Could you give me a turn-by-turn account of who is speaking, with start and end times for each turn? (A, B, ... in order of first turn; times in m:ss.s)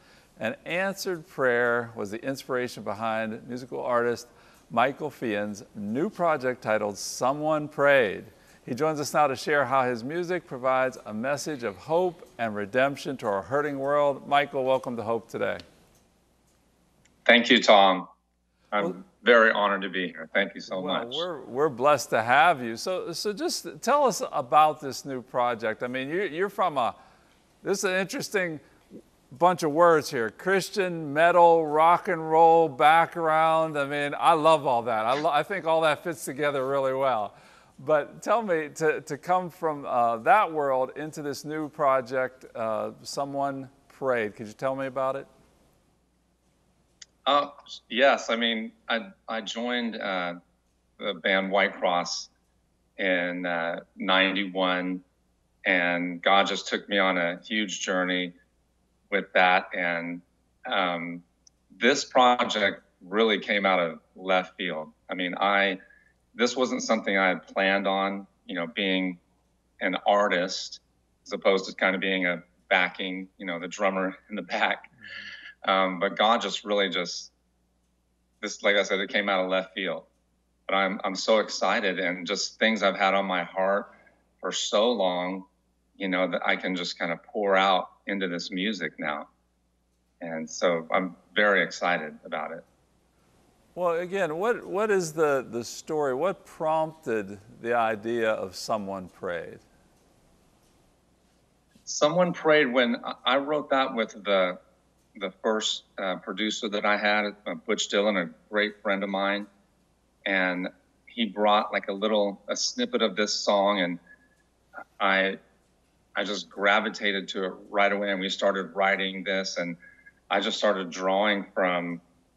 0:00.4-0:15.6 A
0:17.3-0:18.1 B
0:18.7-0:21.2 B
0:20.7-0:27.0 A
0:27.6-0:28.6 A
0:29.3-0:45.3 A
0:47.3-0:50.4 B
0:51.0-0:52.3 B
0:53.0-0:55.0 B
0:55.6-0:58.4 B
0:59.1-1:05.8 B
1:06.3-1:09.2 B
1:09.8-1:14.9 B
1:15.6-1:17.3 B
1:18.4-1:20.1 B
1:20.7-1:29.3 B
1:30.2-1:32.6 B
1:33.8-1:39.6 A
1:41.9-1:44.6 B
1:45.2-1:49.5 B
1:50.2-1:54.0 B
1:55.0-1:55.4 B
1:56.2-1:59.8 B
2:00.3-2:02.0 B